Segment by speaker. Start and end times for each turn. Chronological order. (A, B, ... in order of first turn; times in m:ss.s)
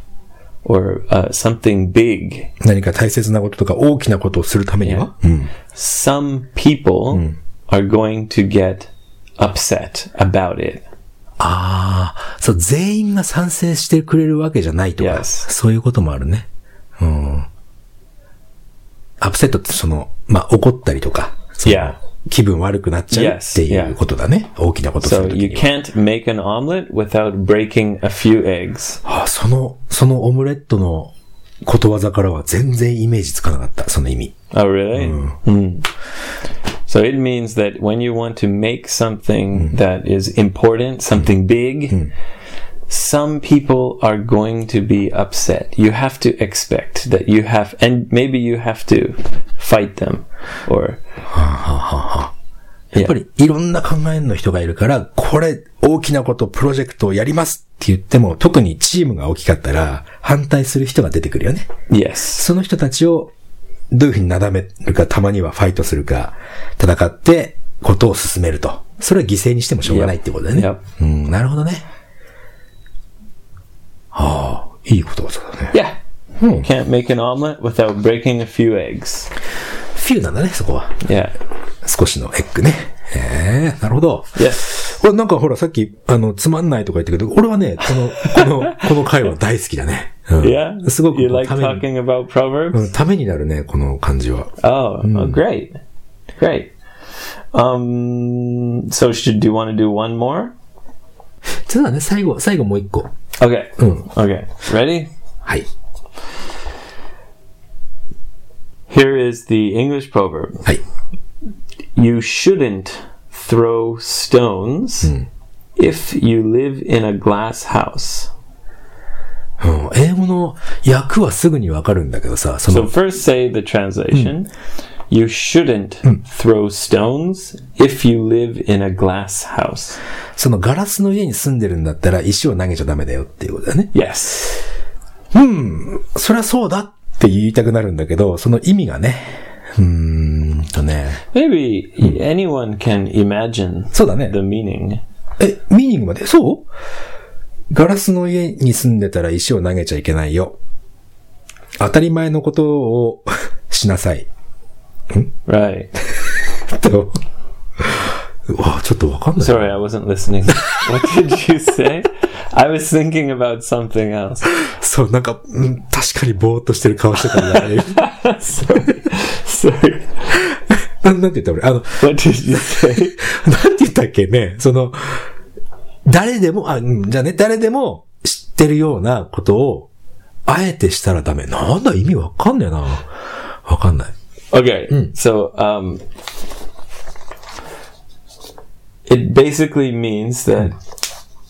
0:00.6-0:02.5 A
0:02.6-0:05.5 B
0:04.8-0:05.1 A
0:05.7-0:10.8 A
0:11.4-0:16.5 B
0:15.0-0:15.5 A
0:17.0-0:17.5 B
0:19.2-0:25.7 B
0:21.6-0:22.0 A
0:23.1-0:24.0 A
0:25.0-0:29.0 A
0:29.0-0:31.1 B
0:31.6-0:34.4 B
0:34.5-0:35.9 A
0:35.0-0:35.4 B
0:36.9-0:42.1 A
0:42.9-0:51.0 A
0:51.3-0:52.3 B
0:52.9-1:01.7 B
1:01.9-1:02.5 A
1:02.4-1:03.3 B
1:03.9-1:11.8 B
1:09.8-1:10.8 A
1:14.1-1:15.7 B
1:15.7-1:16.0 A
1:16.4-1:16.7 B
1:16.6-1:19.3 A
1:20.0-1:21.0 B
1:21.0-1:21.4 A
1:21.8-1:31.8 B
1:24.4-1:24.7 A
1:28.2-1:28.8 A
1:30.4-1:32.9 A
1:32.7-1:35.4 B
1:34.6-1:35.8 A
1:36.4-1:36.7 A
1:37.5-1:40.5 A
1:41.5-1:43.1 B
1:43.4-1:45.1 A
1:48.9-1:50.7 A
1:52.0-1:55.1 A
1:55.8-1:58.3 A
1:59.6-2:02.9 B
2:02.7-2:04.5 A
2:05.1-2:10.0 A
2:10.4-2:13.9 B
2:13.9-2:14.6 A
2:15.3-2:21.2 B
2:21.3-2:25.0 A
2:23.9-2:24.4 B
2:25.4-2:26.7 B
2:27.7-2:30.6 B
2:31.8-2:34.3 B
2:35.5-2:35.9 A
2:36.2-2:37.2 B
2:37.8-2:39.7 B
2:39.4-2:44.6 A
2:40.5-2:40.9 B
2:44.6-2:48.1 B
2:47.3-2:50.4 A
2:50.3-2:55.3 B
2:52.0-2:53.2 A
2:56.1-2:59.9 B
3:00.5-3:03.1 B
3:03.6-3:04.1 B
3:04.5-3:06.0 A
3:09.1-3:10.8 A